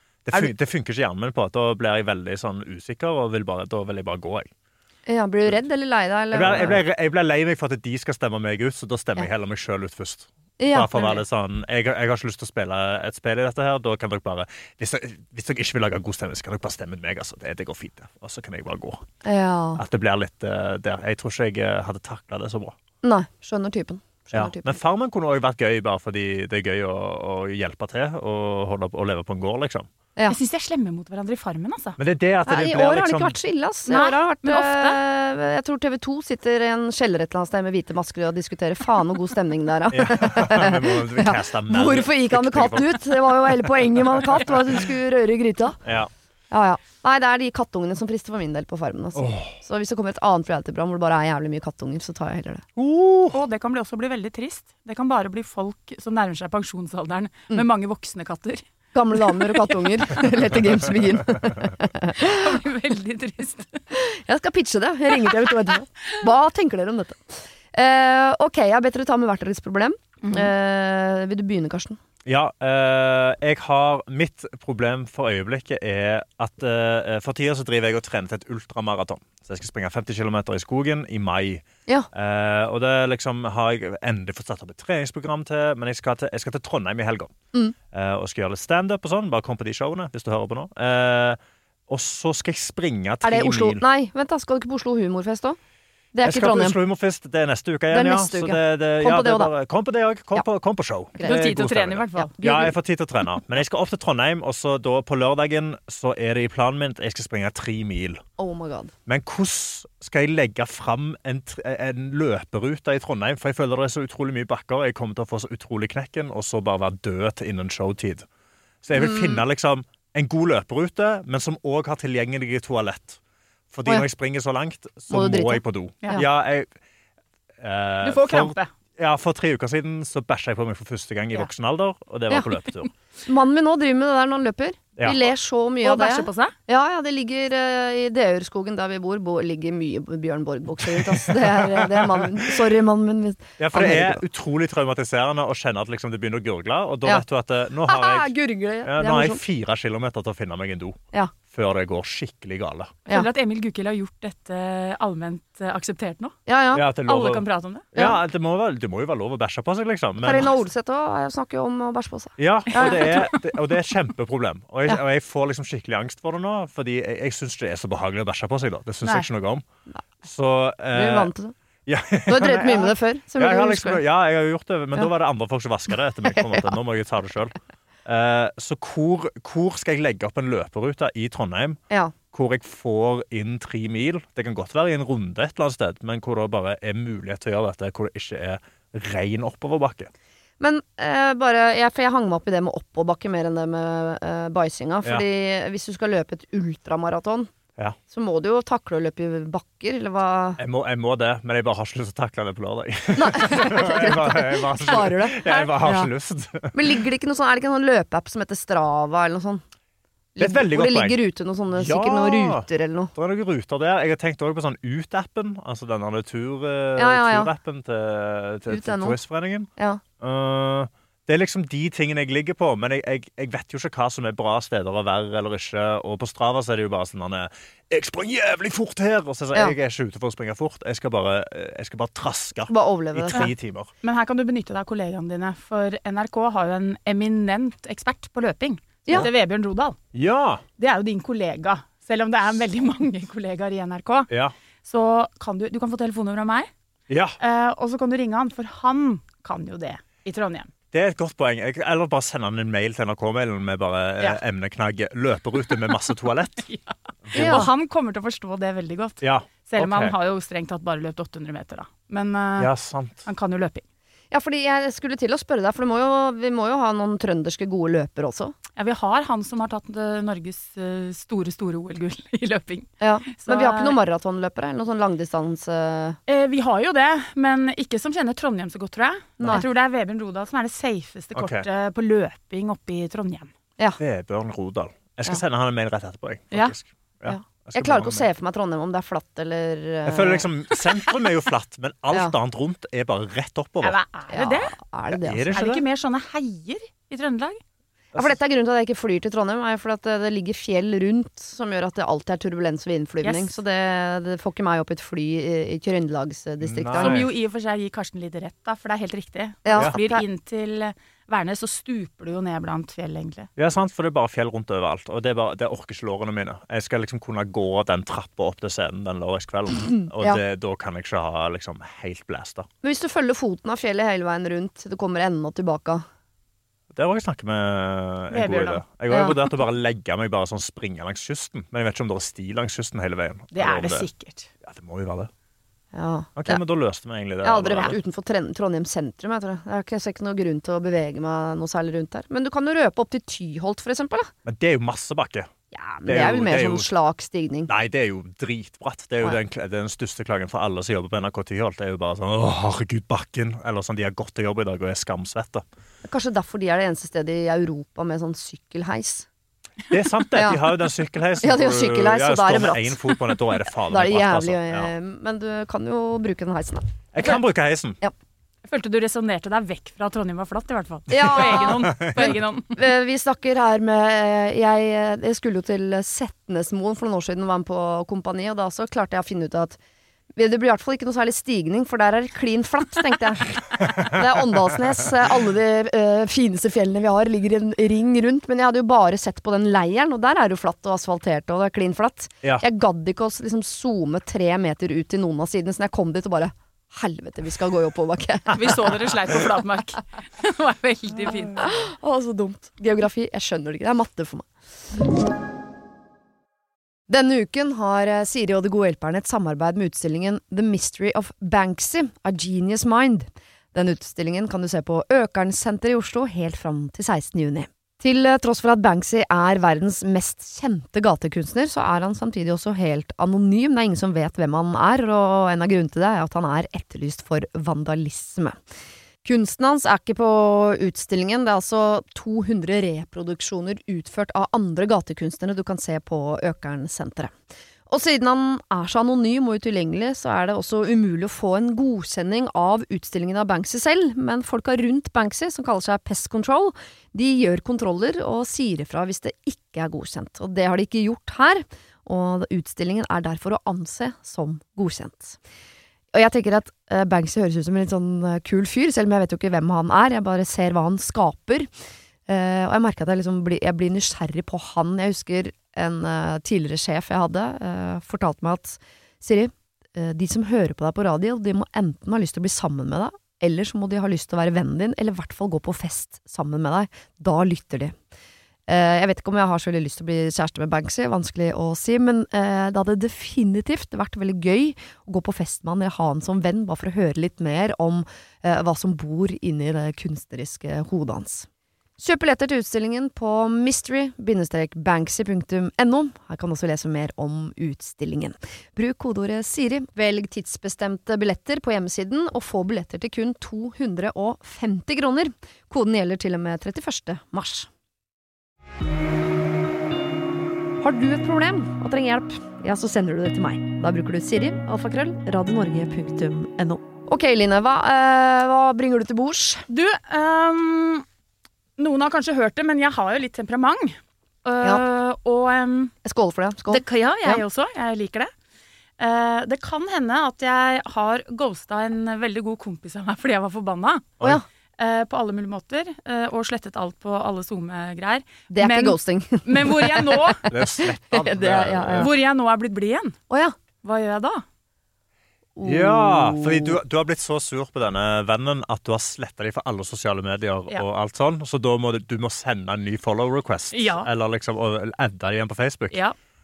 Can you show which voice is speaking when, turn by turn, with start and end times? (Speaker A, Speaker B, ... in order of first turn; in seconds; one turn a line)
Speaker A: 0.3-4.5
Speaker B: 5.1-6.8
Speaker A: 6.3-19.1
Speaker B: 10.6-11.2
Speaker B: 19.2-19.8
Speaker A: 19.8-22.8
Speaker B: 23.0-24.8
Speaker A: 24.3-29.9
Speaker C: 30.3-32.0
Speaker A: 32.0-33.4
Speaker B: 32.5-45.8
Speaker C: 33.9-35.0
Speaker A: 39.9-44.2
Speaker A: 45.9-46.1
Speaker B: 46.5-52.6
Speaker A: 49.1-49.6
Speaker A: 52.8-53.4
Speaker C: 53.3-58.6
Speaker B: 58.9-62.5
Speaker C: 59.3-59.7
Speaker C: 62.2-63.8
Speaker B: 63.9-72.0
Speaker C: 65.1-65.5
Speaker C: 70.2-70.5
Speaker A: 72.3-87.3
Speaker A: 87.9-93.8
Speaker B: 93.2-95.6
Speaker B: 96.1-96.8
Speaker A: 96.2-108.2
Speaker B: 97.9-99.5
Speaker C: 101.2-102.3
Speaker B: 102.2-102.7
Speaker B: 108.4-108.9
Speaker A: 109.1-118.2
Speaker A: 118.8-123.2
Speaker B: 118.9-119.4
Speaker A: 123.7-126.7
Speaker B: 125.1-126.2
Speaker A: 127.6-132.9
Speaker C: 128.0-128.7
Speaker B: 133.3-144.2
Speaker A: 135.0-135.3
Speaker C: 135.8-136.5
Speaker A: 140.8-142.6
Speaker A: 143.6-148.3
Speaker B: 147.8-149.4
Speaker A: 148.8-153.0
Speaker C: 153.1-156.3
Speaker B: 156.5-156.9
Speaker A: 156.7-160.5
Speaker C: 157.1-157.9
Speaker B: 160.2-163.2
Speaker A: 162.4-169.7
Speaker C: 162.7-163.4
Speaker A: 170.2-171.3
Speaker B: 170.9-171.5
Speaker A: 171.9-181.8
Speaker B: 172.3-174.0
Speaker B: 176.3-176.6
Speaker A: 182.3-190.1
Speaker B: 190.6-197.5
Speaker B: 198.1-200.6
Speaker A: 200.6-207.0
Speaker B: 203.2-206.1
Speaker B: 206.7-209.6
Speaker B: 210.4-213.1
Speaker A: 210.4-211.2
Speaker A: 211.7-233.9
Speaker B: 217.0-217.5
Speaker B: 218.7-219.2
Speaker B: 219.8-220.0
Speaker B: 232.7-233.5
Speaker C: 234.0-240.0
Speaker A: 240.1-240.6
Speaker C: 240.8-244.3
Speaker C: 244.8-246.7
Speaker A: 247.1-247.4
Speaker C: 247.4-250.7
Speaker A: 250.9-256.7
Speaker C: 256.6-262.7
Speaker A: 257.3-257.7
Speaker B: 257.4-257.7
Speaker A: 259.2-260.1
Speaker A: 262.6-263.2
Speaker C: 263.2-263.9
Speaker B: 264.3-268.6
Speaker C: 268.8-274.0
Speaker B: 273.0-276.2
Speaker C: 276.3-283.5
Speaker B: 279.4-279.7
Speaker A: 281.4-281.7
Speaker A: 284.0-288.3
Speaker B: 287.3-290.5
Speaker A: 290.1-294.0
Speaker C: 293.8-294.8
Speaker B: 294.3-295.5
Speaker A: 295.1-295.8
Speaker C: 295.5-297.6
Speaker B: 298.1-307.2
Speaker C: 303.2-303.5
Speaker A: 306.6-307.3
Speaker C: 307.0-313.5
Speaker B: 309.7-310.2
Speaker A: 313.6-322.7
Speaker B: 319.9-320.4
Speaker B: 322.8-326.1
Speaker A: 326.9-334.1
Speaker C: 328.3-328.8
Speaker B: 329.1-329.4
Speaker C: 333.5-334.5
Speaker A: 334.6-335.3
Speaker B: 335.9-336.6
Speaker A: 336.4-338.0
Speaker B: 337.4-344.3
Speaker A: 344.5-345.5
Speaker B: 345.7-347.7
Speaker A: 346.1-346.9
Speaker A: 347.7-355.6
Speaker B: 356.0-359.3
Speaker A: 359.9-364.9
Speaker B: 360.3-360.6
Speaker B: 361.4-363.0
Speaker B: 363.9-367.4
Speaker A: 367.1-368.0
Speaker C: 368.7-372.8
Speaker B: 371.1-379.8
Speaker A: 371.1-372.3
Speaker B: 380.4-399.1
Speaker C: 398.5-401.6
Speaker B: 401.6-404.5
Speaker B: 407.1-428.6
Speaker B: 429.2-437.3
Speaker B: 437.9-455.4
Speaker B: 456.1-461.7
Speaker B: 462.3-477.9
Speaker B: 478.7-491.5
Speaker B: 492.0-507.7
Speaker B: 510.8-519.7
Speaker C: 519.7-521.0
Speaker C: 521.8-525.9
Speaker B: 526.0-527.4
Speaker C: 526.7-528.3
Speaker C: 529.0-534.1
Speaker C: 534.8-540.5
Speaker B: 538.5-542.1
Speaker A: 540.5-542.1
Speaker C: 542.0-543.2
Speaker B: 543.3-543.5
Speaker C: 543.8-544.4
Speaker B: 545.6-546.8
Speaker A: 545.6-556.0
Speaker C: 553.7-554.1